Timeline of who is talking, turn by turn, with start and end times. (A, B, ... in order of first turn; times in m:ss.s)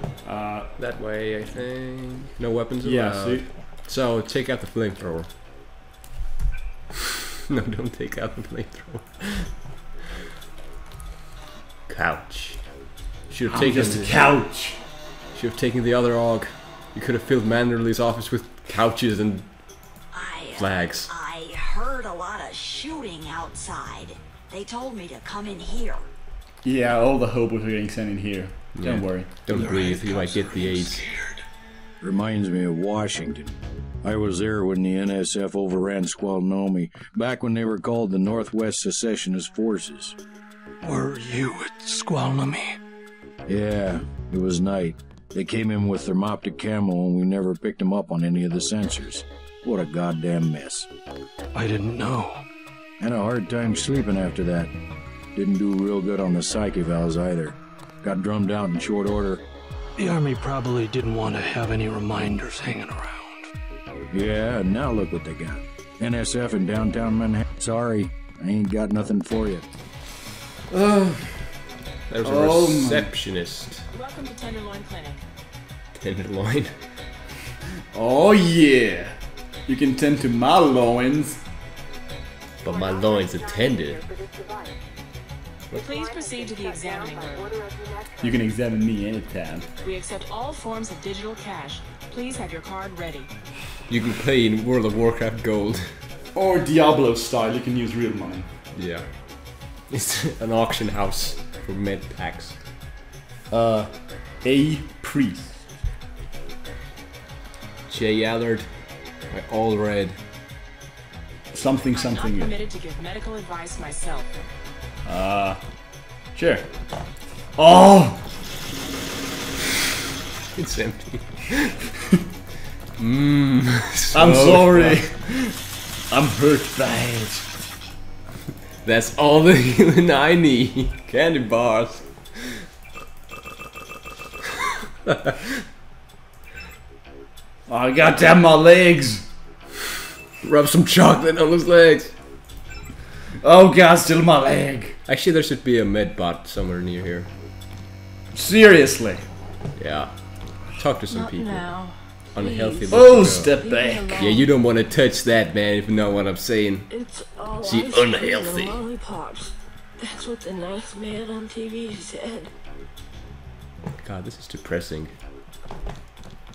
0:00.2-0:00.7 A
0:00.8-0:05.3 B
0:02.8-0:03.6 A
0:07.5-0:09.5 B
0:11.9-0:12.7 B
0:13.3-0:14.2 B
0:13.5-0:14.8 A
0:15.3-0:19.5 B
0:20.1-0:26.1 C
0:20.6-0:21.1 B
0:26.6-0:29.4 A
0:28.7-0:31.1 B
0:29.5-0:31.4 D
0:32.0-0:40.2 E
0:40.8-0:42.8 D
0:43.4-0:50.9 E
0:51.5-0:52.4 D
0:53.0-0:54.7 E
0:55.3-0:59.4 E
1:00.0-1:03.5 D
1:04.1-1:09.6 E
1:10.7-1:11.5 A
1:12.1-1:13.9 B
1:12.2-1:13.1 A
1:13.9-1:15.2 F
1:15.9-1:16.7 B
1:17.9-1:19.2 A
1:19.7-1:21.4 A
1:22.6-1:24.0 B
1:23.0-1:23.9 G
1:25.7-1:27.5 F
1:28.2-1:29.7 A
1:29.8-1:33.3 F
1:33.9-1:36.0 B
1:36.3-1:38.5 A
1:38.7-1:39.1 B
1:39.9-1:42.6 B
1:43.5-1:45.7 A
1:47.9-1:48.7 B
1:49.3-1:50.2 B
1:51.5-1:52.6 A
1:51.9-1:54.3 F
1:55.0-1:55.6 A
1:56.3-1:56.7 A
1:57.6-1:58.2 A
2:00.5-2:01.8 B
2:03.0-2:05.1 B
2:04.1-2:05.6 A
2:06.1-2:07.5 A
2:08.8-2:12.6 B
2:15.0-2:15.6 B
2:17.7-2:19.3 A
2:20.4-2:22.1 B
2:23.4-2:25.0 A
2:25.0-2:27.3 B
2:28.3-2:29.2 A
2:29.8-2:31.7 B
2:31.1-2:34.5 G
2:32.3-2:33.6 B
2:32.9-2:34.2 A
2:34.1-2:36.9 B
2:36.9-2:42.5 G
2:37.6-2:38.8 B
2:44.0-2:45.1 B